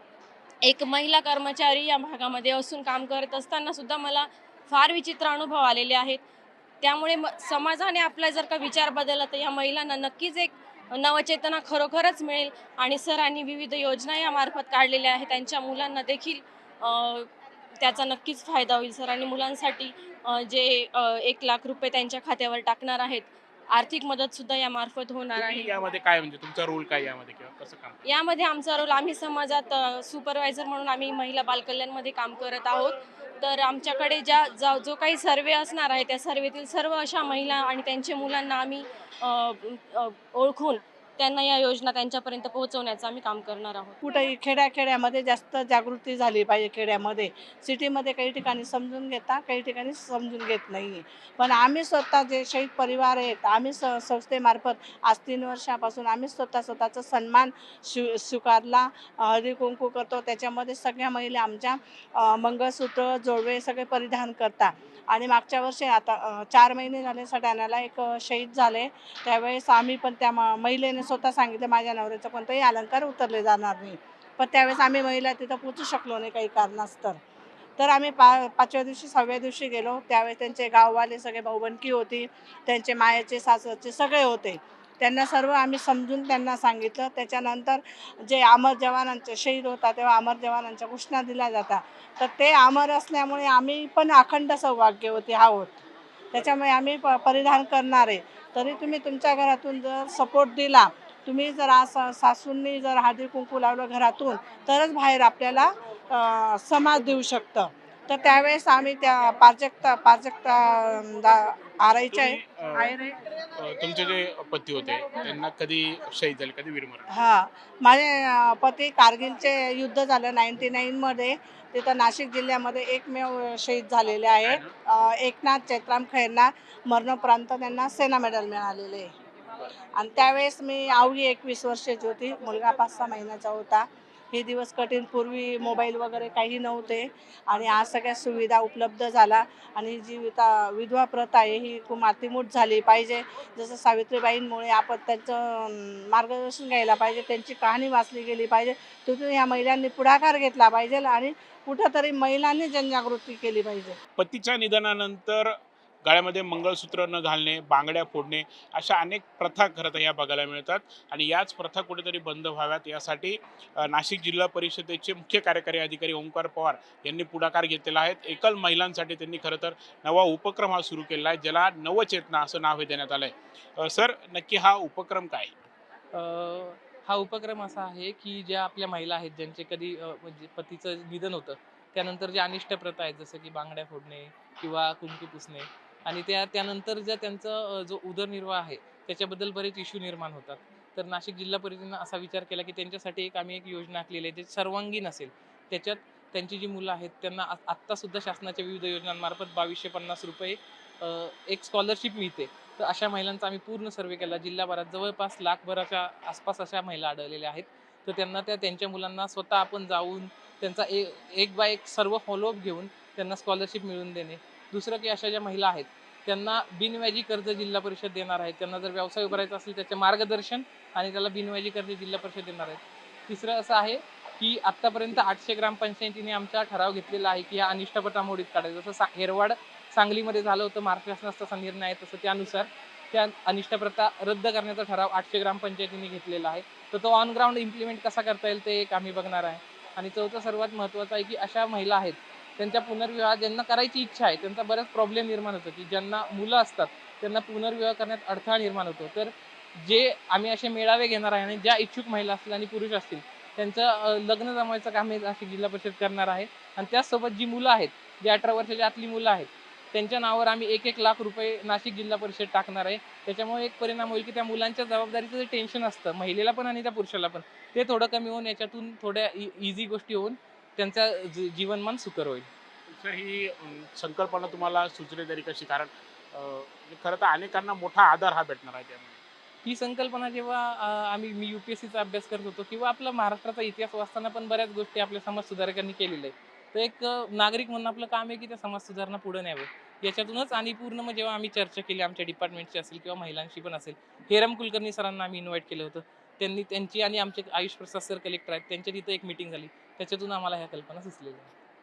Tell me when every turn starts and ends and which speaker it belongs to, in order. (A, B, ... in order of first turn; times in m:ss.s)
0:00.6-0:06.2 A
0:06.8-0:17.3 A
0:17.8-0:25.7 A
0:25.3-0:28.0 B
0:28.0-0:44.0 A
0:44.0-1:17.2 C
1:17.8-1:53.1 C
1:52.1-1:53.0 B
1:53.6-1:57.1 B
1:57.1-2:09.1 C
2:04.4-2:04.7 B
2:10.0-2:34.0 C
2:34.2-2:55.5 B
2:56.1-4:32.5 D
4:32.9-4:39.2 B
4:39.6-5:01.5 D